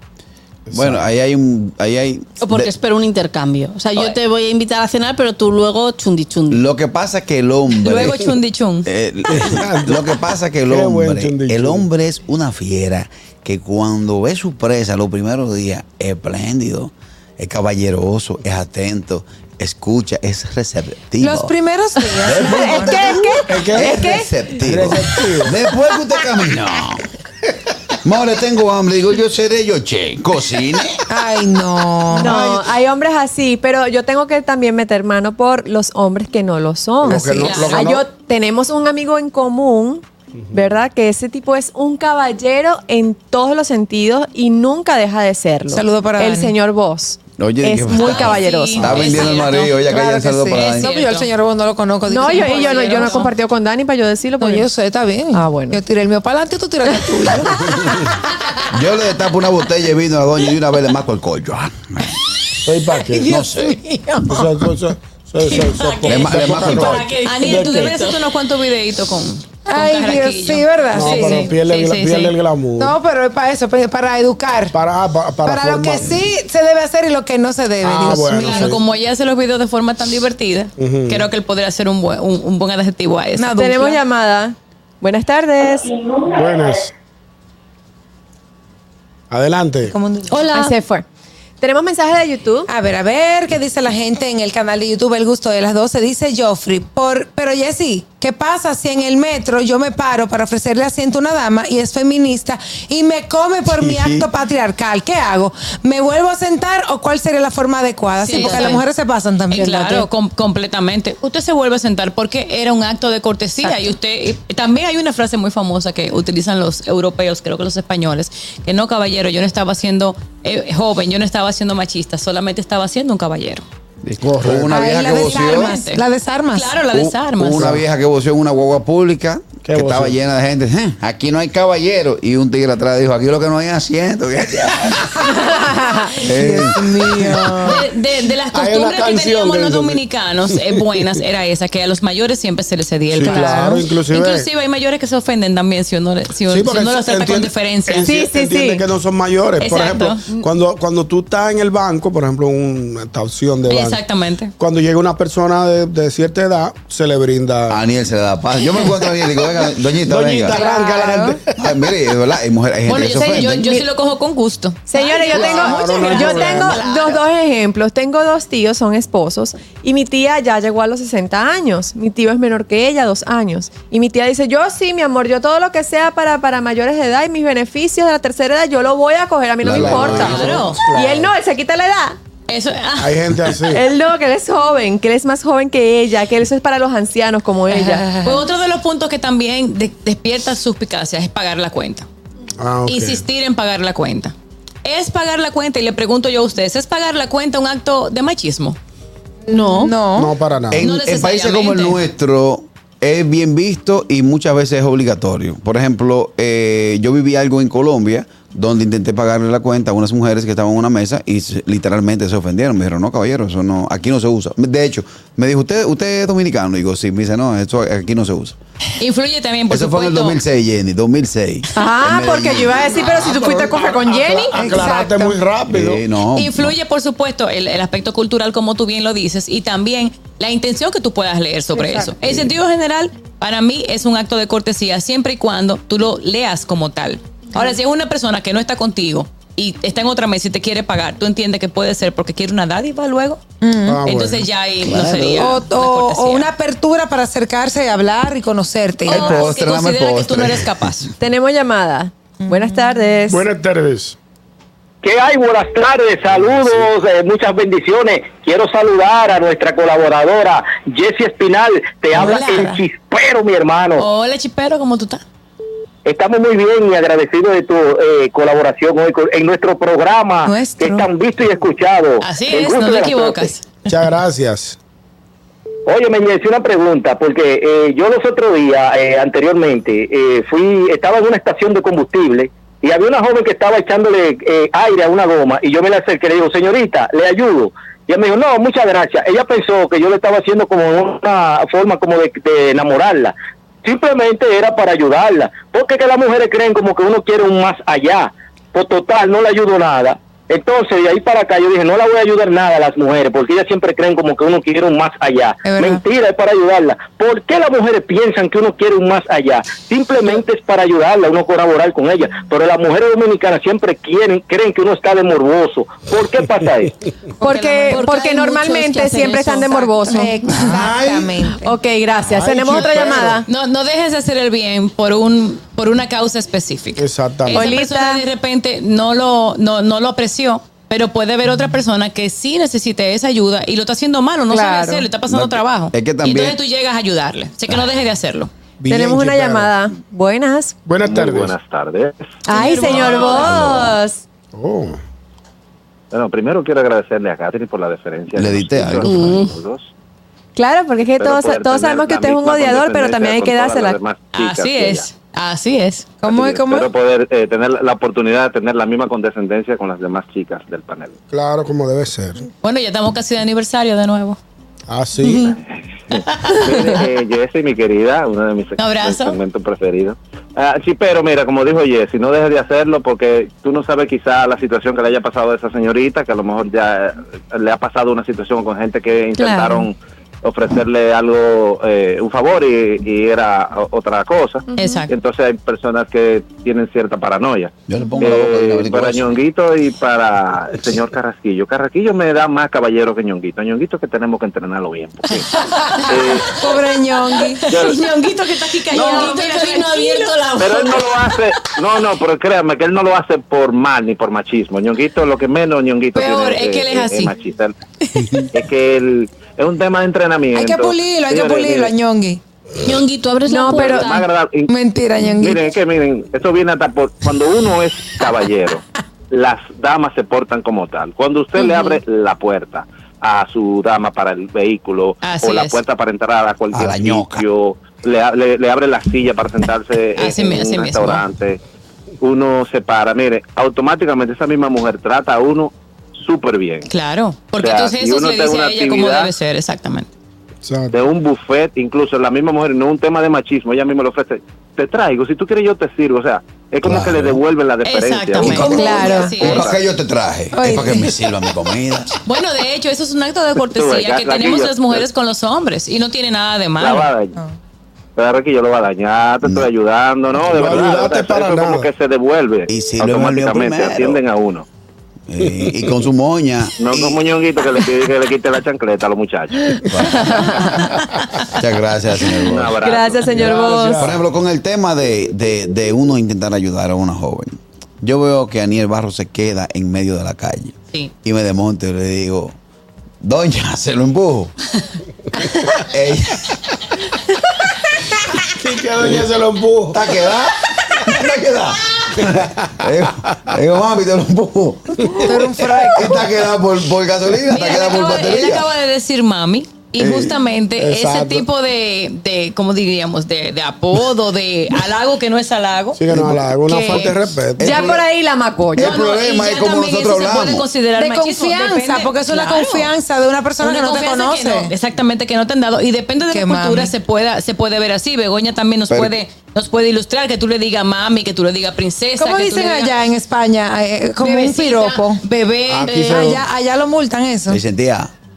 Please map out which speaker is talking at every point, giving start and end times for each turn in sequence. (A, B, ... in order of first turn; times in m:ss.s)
0:00.7-0:01.0 A
0:00.7-0:02.7 B
0:02.4-0:06.6 C
0:06.5-0:08.2 B
0:07.8-0:08.9 D
0:08.8-0:21.5 B
0:09.3-0:11.8 A
0:21.2-0:23.0 E
0:22.1-0:24.3 F
0:22.2-0:27.0 B
0:23.4-0:24.0 A
0:24.6-0:25.6 A
0:28.0-0:31.0 B
0:31.1-0:32.3 E
0:32.1-0:49.0 F
0:32.2-0:32.6 A
0:37.0-0:38.0 A
0:37.1-0:37.6 E
0:37.4-0:37.8 D
0:45.7-0:46.5 E
0:47.4-0:50.9 B
0:48.0-0:49.7 D
0:49.4-0:53.3 E
0:50.5-0:51.3 D
0:52.1-0:54.7 F
0:52.3-0:53.3 D
0:54.4-0:58.0 E
0:55.3-0:55.8 F
0:58.7-1:02.2 B
1:02.6-1:03.4 A
1:03.1-1:04.4 C
1:03.2-1:03.8 B
1:04.3-1:08.0 A
1:05.4-1:08.2 C
1:06.0-1:07.1 B
1:07.2-1:12.4 D
1:09.7-1:11.5 E
1:10.9-1:13.0 A
1:12.8-1:14.8 E
1:14.7-1:16.3 A
1:15.4-1:18.7 E
1:17.8-1:18.8 A
1:18.3-1:23.6 D
1:20.8-1:21.3 A
1:23.4-1:24.0 E
1:23.6-1:26.0 F
1:26.2-1:26.9 A
1:29.3-1:29.9 A
1:29.9-1:30.5 E
1:30.5-1:31.0 F
1:31.6-1:32.7 F
1:32.7-1:50.1 E
1:48.2-1:48.8 D
1:49.5-2:03.6 D
2:04.0-2:05.7 B
2:04.2-2:04.7 A
2:04.6-2:06.8 E
2:05.0-2:07.8 D
2:06.9-2:15.4 B
2:09.6-2:10.1 A
2:15.8-2:17.8 E
2:16.2-2:17.2 B
2:16.6-2:17.6 A
2:17.6-2:28.1 D
2:18.5-2:20.0 A
2:23.1-2:24.5 A
2:23.2-2:23.8 E
2:26.5-2:34.0 A
2:28.0-2:28.8 F
2:29.6-2:30.3 D
2:33.7-2:34.5 D
2:34.6-2:37.8 A
2:37.7-2:40.6 B
2:40.0-2:41.6 A
2:40.5-2:41.4 E
2:41.6-2:43.8 B
2:42.8-2:47.2 D
2:43.5-2:43.7 F
2:44.9-3:02.2 F
2:45.3-2:46.8 A
2:59.6-3:00.6 B
2:59.6-3:01.3 A
3:00.1-3:00.8 D
3:02.5-3:03.6 D
3:03.0-3:03.8 A
3:03.7-3:08.2 F
3:07.8-3:12.1 D
3:12.6-3:13.2 A
3:12.8-3:18.8 D
3:19.5-3:20.0 C
3:19.5-3:20.4 E
3:20.1-3:20.8 A
3:20.7-3:38.6 B
3:20.8-3:22.0 D
3:39.0-3:40.4 D
3:39.7-3:43.3 B
3:41.7-3:45.2 F
3:43.2-3:46.0 A
3:44.5-3:45.4 E
3:45.7-3:46.7 B
3:46.3-4:03.4 D
3:51.8-3:52.0 F
4:03.6-4:04.0 E
4:03.8-4:04.4 A
4:04.0-4:06.5 D
4:04.8-4:05.5 B
4:05.4-4:09.4 E
4:09.0-4:11.1 D
4:09.1-4:11.1 B
4:11.2-4:13.4 F
4:12.5-4:12.8 E
4:13.3-4:14.2 A
4:15.0-4:24.0 G
4:22.1-4:22.8 D
4:24.0-4:25.2 D
4:26.0-4:33.5 G
4:30.4-4:31.1 E
4:32.2-4:33.9 D
4:33.9-4:34.8 A
4:35.8-5:16.9 G
5:05.6-5:06.0 E
5:17.4-5:20.4 F
5:17.4-5:20.0 C
5:20.0-5:21.7 E
5:20.6-5:21.2 A
5:21.6-5:23.4 F
5:22.3-5:23.4 A
5:23.5-5:38.5 D
5:27.0-5:27.7 A
5:27.5-5:28.2 F
5:34.5-5:35.1 F
5:35.3-5:36.6 B
5:38.8-5:39.7 A
5:38.9-5:40.8 F
5:40.8-5:41.5 A
5:41.0-5:42.4 H
5:42.4-5:44.2 F
5:42.5-5:43.6 D
5:43.4-5:44.0 B
5:44.5-5:45.0 A
5:46.1-5:49.9 H
5:48.4-5:49.5 B
5:49.0-5:49.5 C
5:50.6-5:54.0 F
5:51.2-5:55.1 H
5:54.3-5:56.1 D
5:56.2-5:56.9 E
5:56.2-6:01.1 H
6:01.3-6:02.5 A
6:02.6-6:04.4 D
6:04.9-6:05.6 A
6:05.7-6:35.5 H
6:06.3-6:06.6 D
6:08.8-6:09.4 D
6:19.4-6:19.9 F
6:24.7-6:25.0 F
6:24.8-6:25.1 D
6:27.9-6:29.4 B
6:35.8-6:37.6 E
6:36.0-6:36.6 H
6:37.7-6:40.4 D
6:37.7-6:38.0 H
6:37.8-6:38.1 C
6:38.9-6:41.2 C
6:39.0-6:39.3 H
6:40.6-6:47.7 H
6:46.1-6:47.3 D
6:48.5-6:51.9 H
6:50.5-6:52.4 E
6:52.8-6:54.3 C
6:53.4-6:54.2 F
6:53.7-7:11.6 H
6:54.7-6:55.7 E
7:05.2-7:05.8 D
7:06.7-7:07.4 B
7:10.2-7:11.2 D
7:12.2-7:16.9 H
7:16.9-7:20.1 D
7:17.6-7:19.3 H
7:20.6-7:21.0 A
7:20.9-7:29.8 H
7:26.8-7:27.4 B
7:27.8-7:29.7 D
7:28.4-7:32.1 B
7:28.7-7:29.4 F
7:30.5-7:31.1 E
7:32.2-7:37.1 D
7:33.7-7:35.0 H
7:36.8-7:37.4 H
7:38.2-7:44.6 H
7:40.5-7:41.9 A
7:42.7-7:44.2 B
7:45.3-7:47.2 B
7:46.8-7:49.8 H
7:49.9-7:50.7 B
7:50.1-7:50.8 F
7:51.5-7:52.8 B
7:52.4-7:53.5 H
7:52.8-7:54.1 F
7:53.2-7:54.2 A
7:53.9-8:02.6 B
8:03.2-8:04.5 B
8:05.7-8:06.6 B
8:08.5-8:10.0 A
8:09.9-8:18.7 B
8:15.2-8:16.3 E
8:17.5-8:26.0 D
8:20.0-8:20.3 B
8:20.8-8:21.4 A
8:26.0-8:27.9 A
8:26.1-8:27.0 B
8:26.6-8:27.2 D
8:27.6-8:28.0 B
8:27.6-8:28.9 F
8:28.7-8:30.7 B
8:28.8-8:32.9 D
8:31.0-8:34.7 E
8:33.6-8:42.9 D
8:36.3-8:36.9 E
8:38.9-8:39.1 B
8:42.2-8:45.2 E
8:44.2-8:46.3 D
8:45.7-8:46.4 A
8:45.9-8:46.3 C
8:46.1-8:47.6 E
8:47.5-8:48.1 B